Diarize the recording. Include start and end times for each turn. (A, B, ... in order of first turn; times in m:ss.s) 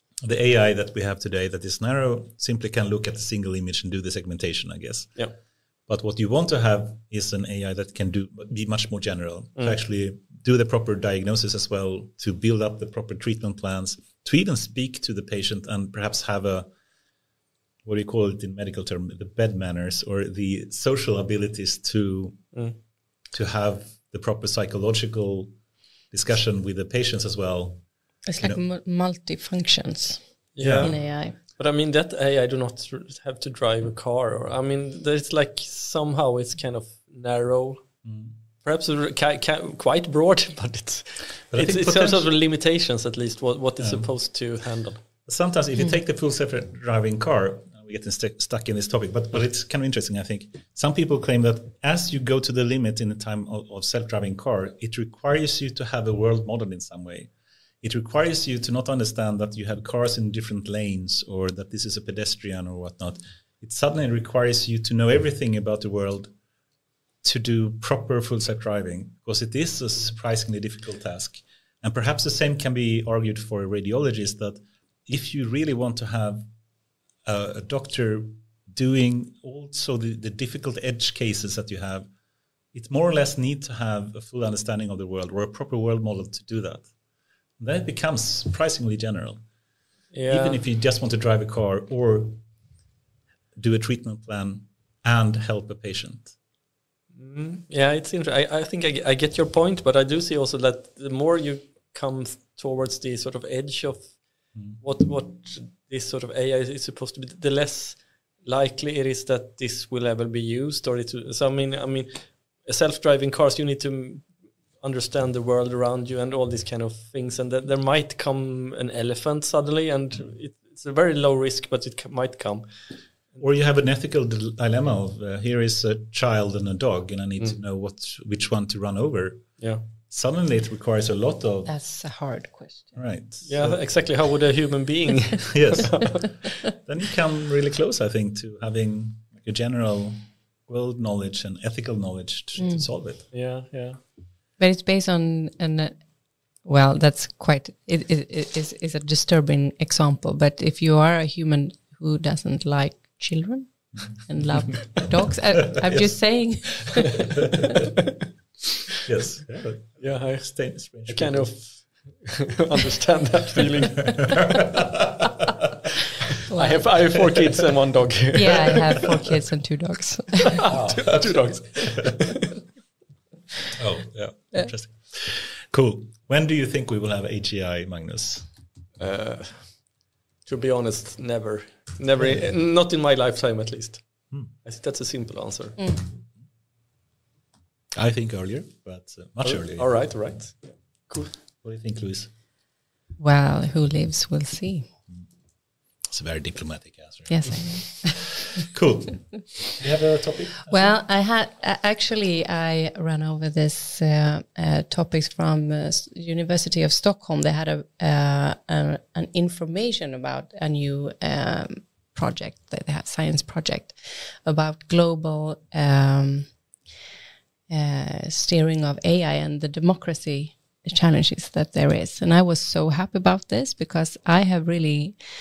0:00.2-0:05.3 A
0:05.9-0:16.7 A
0:17.8-0:22.5 A
0:23.3-0:25.5 A
0:26.1-0:27.8 A
0:28.3-0:31.4 B
0:30.5-0:38.0 C
0:30.6-0:30.9 A
0:38.0-0:38.3 A
0:38.6-0:45.0 C
0:41.5-0:42.2 A
0:43.8-0:44.1 A
0:45.2-1:06.3 A
1:07.2-1:16.5 A
1:17.2-1:22.1 A
1:22.7-1:26.9 A
1:27.6-1:29.4 A
1:30.1-1:30.6 C
1:30.3-1:32.4 A
1:33.6-1:36.3 A
1:37.1-2:03.4 C
2:03.4-2:11.7 A
2:11.6-2:13.0 B
2:12.9-2:14.2 A
2:13.4-2:16.3 C
2:15.5-2:23.3 A
2:22.6-2:22.9 B
2:23.3-2:24.1 C
2:24.6-2:26.0 B
2:26.6-2:37.5 B
2:35.9-2:36.2 A
2:39.0-2:41.6 A
2:40.0-2:44.5 C
2:44.4-2:45.2 A
2:46.5-2:47.2 B
2:46.5-2:49.0 C
2:48.4-2:50.6 B
2:50.6-2:52.6 C
2:50.7-2:51.8 A
2:53.8-2:58.5 A
2:59.0-3:05.9 C
3:02.2-3:02.4 A
3:07.9-3:10.3 A
3:09.4-3:11.4 C
3:11.6-3:12.3 A
3:13.2-3:14.9 B
3:16.0-3:20.9 A
3:17.3-3:18.4 B
3:20.7-3:36.5 B
3:37.7-3:45.2 B